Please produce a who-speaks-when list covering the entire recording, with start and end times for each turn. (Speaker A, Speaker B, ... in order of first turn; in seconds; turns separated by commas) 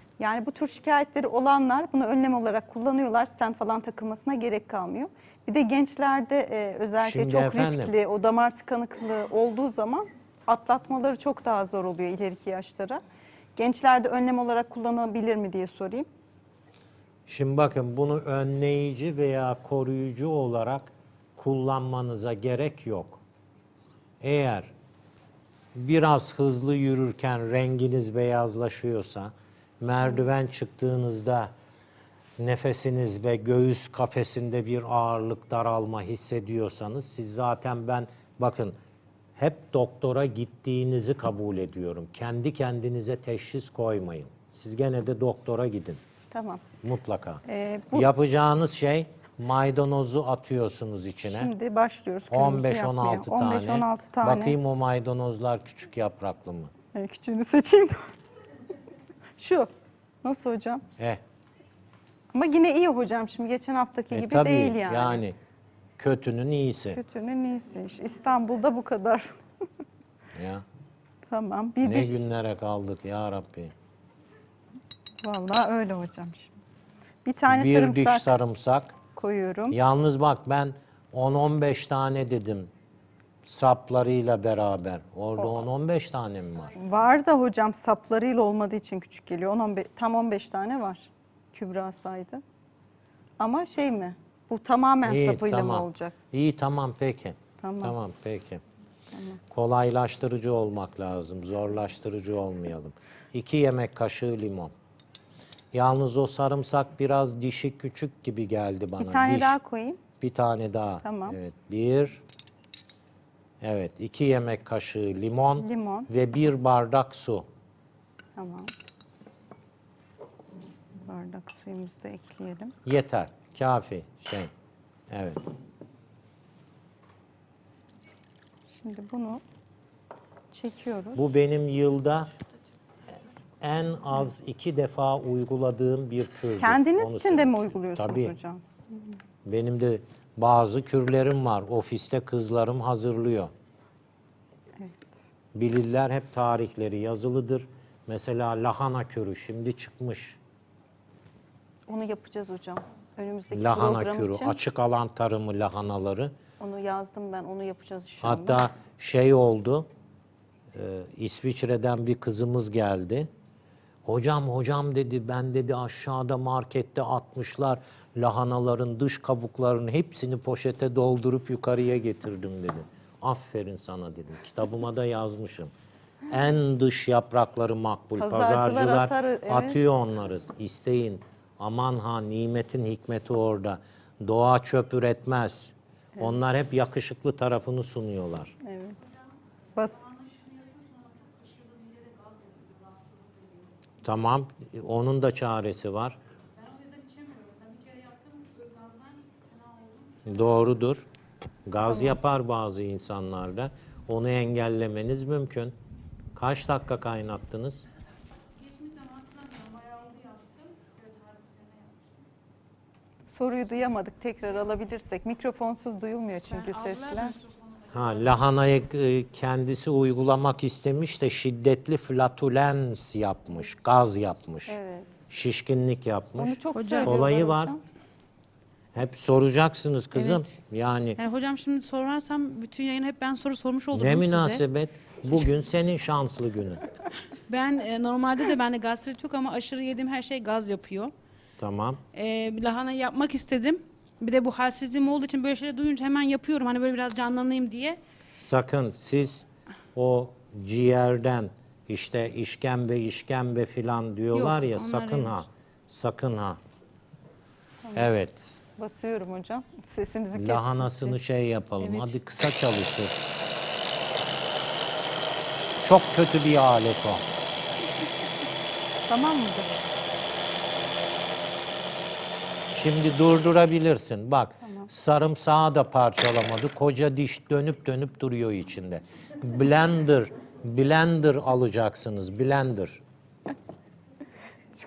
Speaker A: 0.2-13.0, Speaker B: 7.0-7.9, Speaker A: 13.6-16.1, Speaker B: 17.3-23.2, Speaker B: 24.2-24.7, Speaker B: 25.7-31.5, Speaker B: 32.4-38.8, Speaker B: 39.4-46.0, Speaker A: 46.3-46.6, Speaker B: 46.8-51.5, Speaker A: 47.5-48.1, Speaker A: 51.3-54.6, Speaker B: 52.3-56.7, Speaker A: 56.9-58.1, Speaker A: 59.4-59.7, Speaker A: 60.2-60.8, Speaker A: 62.3-65.2, Speaker B: 64.1-65.4, Speaker B: 66.0-67.0, Speaker A: 67.0-69.4, Speaker B: 70.3-70.7, Speaker A: 71.3-72.2, Speaker B: 71.8-73.7, Speaker A: 75.2-76.5, Speaker A: 77.2-78.3, Speaker B: 77.5-79.0, Speaker A: 79.1-79.8, Speaker B: 79.7-82.7, Speaker B: 83.5-86.7, Speaker A: 86.8-92.4, Speaker A: 93.4-96.2, Speaker B: 95.0-98.6, Speaker A: 97.6-98.0, Speaker A: 99.1-99.4, Speaker B: 99.5-104.7, Speaker B: 105.7-109.5, Speaker A: 109.0-110.0, Speaker B: 110.2-112.2, Speaker A: 111.0-111.4, Speaker B: 113.6-117.5, Speaker A: 115.6-116.1, Speaker A: 118.4-118.7, Speaker A: 121.0-122.8, Speaker B: 122.8-124.5, Speaker B: 125.1-125.4, Speaker A: 128.8-129.4, Speaker A: 130.5-131.2, Speaker B: 131.2-132.3, Speaker B: 133.6-138.3, Speaker A: 136.6-138.6, Speaker B: 139.4-143.5, Speaker A: 144.8-145.2, Speaker B: 145.5-150.4, Speaker A: 151.9-154.6, Speaker B: 153.5-156.3, Speaker A: 156.6-158.7, Speaker B: 158.2-159.9, Speaker B: 160.7-163.3, Speaker B: 164.1-175.7, Speaker B: 176.3-188.6, Speaker A: 178.2-179.8, Speaker A: 188.6-189.0, Speaker A: 189.8-190.1, Speaker C: 189.8-193.7, Speaker B: 194.0-196.2, Speaker C: 196.5-200.7, Speaker B: 200.3-201.1, Speaker B: 201.7-205.7, Speaker B: 206.3-207.9, Speaker C: 208.6-212.2, Speaker A: 213.3-217.3, Speaker C: 216.5-218.3, Speaker B: 217.9-224.8, Speaker A: 224.7-225.1, Speaker B: 225.3-227.7, Speaker A: 226.4-227.8, Speaker C: 226.7-227.3, Speaker B: 228.9-231.2, Speaker C: 230.2-230.5, Speaker C: 231.2-234.6, Speaker B: 233.9-236.8, Speaker C: 237.5-241.1, Speaker B: 241.6-242.0, Speaker C: 242.1-248.0, Speaker B: 248.4-256.6, Speaker C: 254.3-255.4, Speaker B: 257.9-258.6, Speaker A: 258.8-261.2, Speaker B: 260.4-263.1, Speaker A: 261.8-262.1, Speaker B: 265.8-267.2, Speaker A: 269.1-269.8, Speaker B: 272.7-283.0, Speaker A: 274.6-274.9